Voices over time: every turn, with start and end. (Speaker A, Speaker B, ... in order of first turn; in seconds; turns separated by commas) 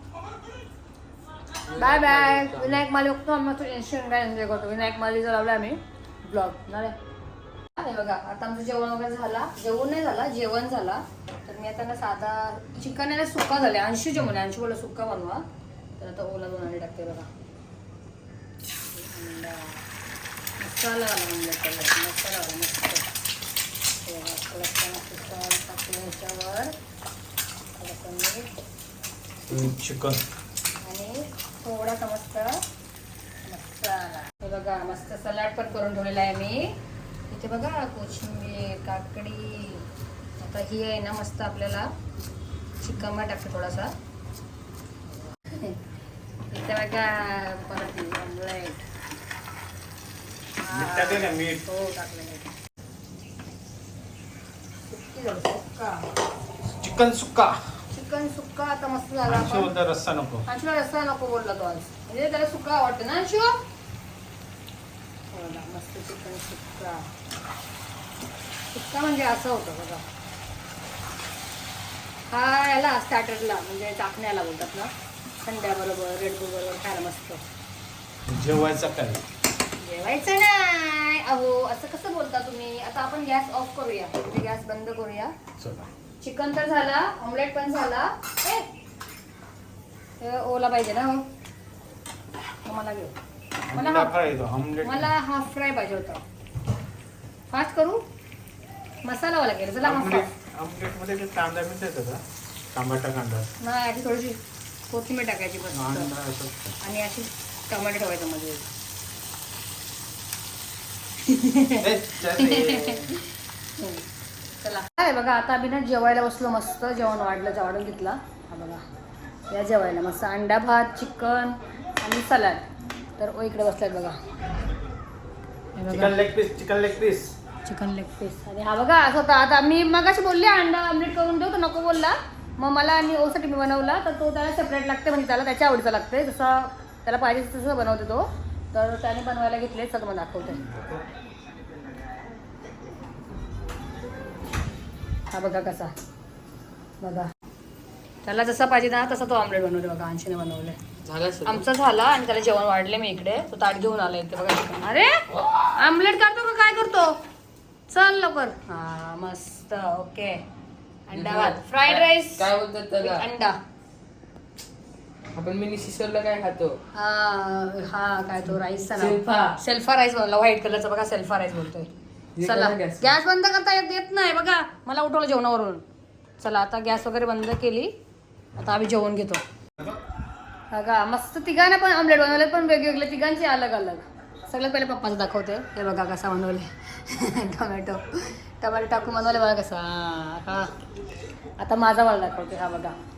Speaker A: 1.7-2.8, Speaker B: 1.8-7.0, Speaker B: 7.8-15.4, Speaker B: 16.0-17.3, Speaker B: 18.9-19.8, Speaker B: 20.6-23.1, Speaker B: 24.0-26.7, Speaker B: 27.8-28.5, Speaker C: 29.5-30.2, Speaker B: 30.8-32.6, Speaker B: 33.5-36.8, Speaker B: 37.3-39.9, Speaker B: 40.4-41.9, Speaker B: 42.8-43.9, Speaker B: 45.4-45.8, Speaker B: 46.5-48.8, Speaker B: 50.6-52.5, Speaker C: 50.7-51.6, Speaker B: 54.9-56.1, Speaker C: 56.6-57.6, Speaker B: 57.9-59.7, Speaker C: 59.3-60.5, Speaker B: 60.5-63.6, Speaker B: 65.3-67.1, Speaker B: 68.7-70.0, Speaker B: 72.3-77.4, Speaker C: 78.3-79.2, Speaker B: 79.8-85.3, Speaker C: 85.6-85.9, Speaker B: 86.2-88.7, Speaker B: 90.2-91.2, Speaker B: 92.6-93.2, Speaker C: 93.7-95.1, Speaker B: 93.7-94.1, Speaker B: 94.8-96.2, Speaker B: 97.5-98.0, Speaker B: 99.0-100.3, Speaker C: 99.8-102.2, Speaker C: 102.7-103.5, Speaker B: 103.6-106.1, Speaker C: 105.7-106.8, Speaker B: 106.8-108.7, Speaker B: 111.2-114.0, Speaker C: 111.8-113.2, Speaker B: 114.6-118.8, Speaker B: 119.5-122.7, Speaker B: 123.2-124.2, Speaker B: 125.8-126.2, Speaker C: 125.9-127.3, Speaker B: 127.7-140.6, Speaker C: 140.6-141.0, Speaker B: 145.3-145.9, Speaker B: 147.0-147.3, Speaker B: 148.2-150.8, Speaker A: 151.1-151.7, Speaker B: 151.5-155.2, Speaker B: 155.7-157.2, Speaker B: 157.9-160.4, Speaker B: 161.1-163.6, Speaker A: 161.1-163.3, Speaker A: 165.3-166.8, Speaker B: 166.9-175.8, Speaker A: 168.5-169.6, Speaker A: 172.4-173.1, Speaker B: 176.4-177.9, Speaker B: 178.6-179.4, Speaker B: 180.7-190.7, Speaker B: 191.6-193.0